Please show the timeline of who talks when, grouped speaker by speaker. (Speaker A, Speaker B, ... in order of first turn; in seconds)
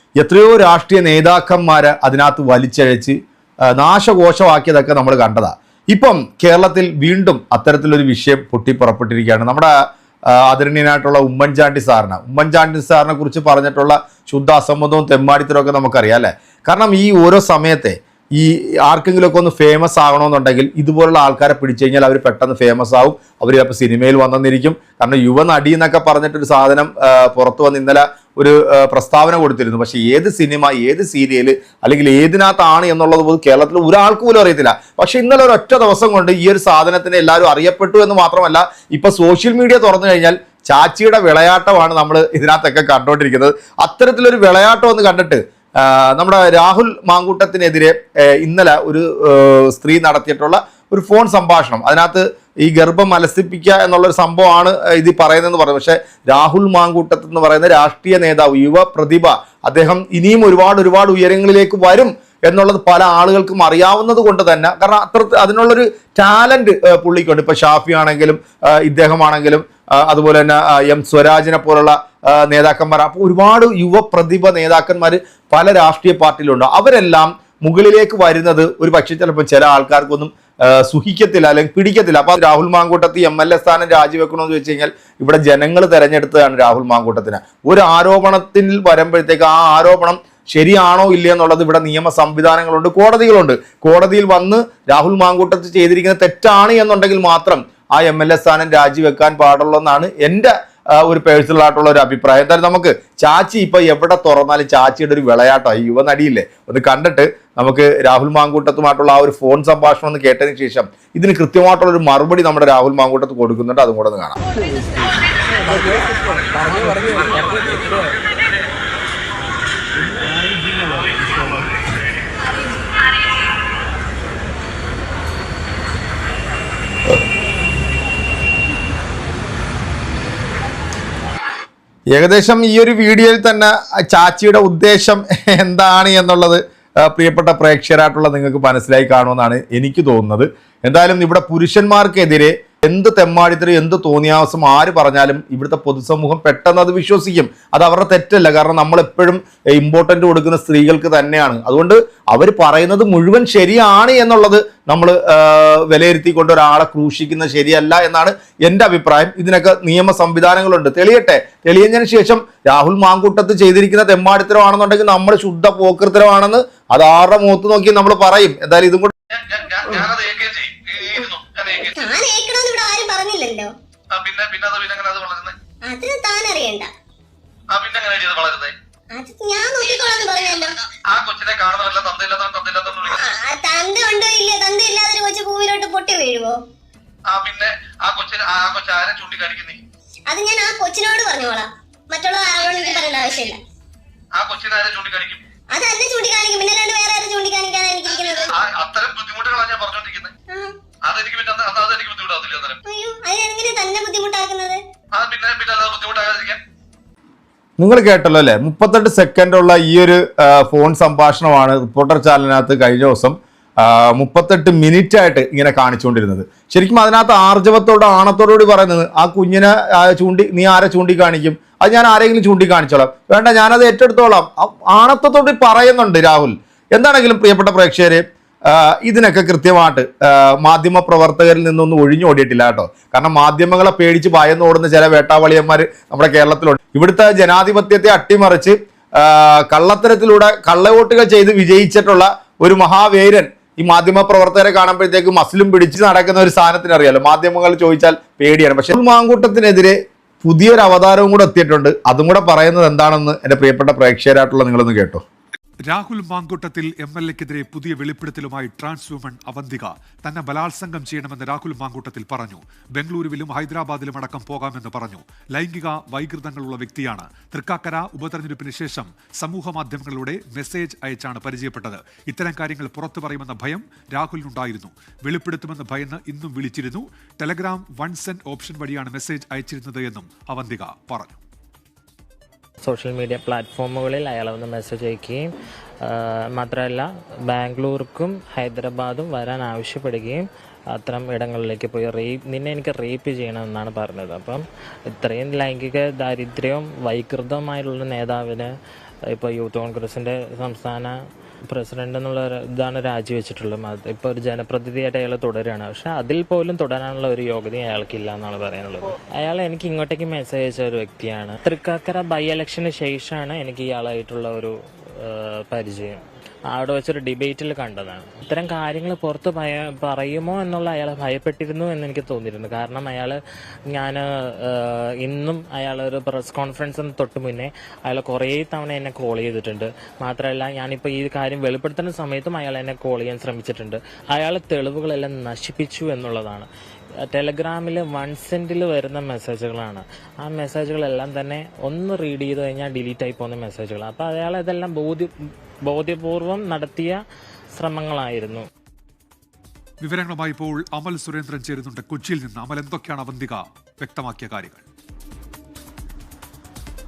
Speaker A: 0.2-3.2, 3.7-9.7, 10.3-114.3, 132.1-169.1, 207.8-255.2
Speaker B: 169.3-172.2, 174.1-175.5, 177.7-178.7, 181.1-183.2, 187.3-189.8, 192.6-193.1, 194.3-195.4, 198.1-200.3, 201.0-202.8, 205.1-206.6
Speaker C: 171.8-173.7, 175.8-176.9, 179.1-180.7, 183.1-186.6, 190.3-193.6, 195.7-198.5, 200.5-200.8, 202.8-204.8
Speaker D: 255.9-281.4, 350.0-354.8
Speaker E: 282.8-285.4, 286.1-290.4, 290.9-298.7, 299.3-301.1, 301.7-314.7, 315.2-316.2, 316.7-323.4, 323.9-336.7, 337.3-345.3, 345.9-347.2, 347.8-348.6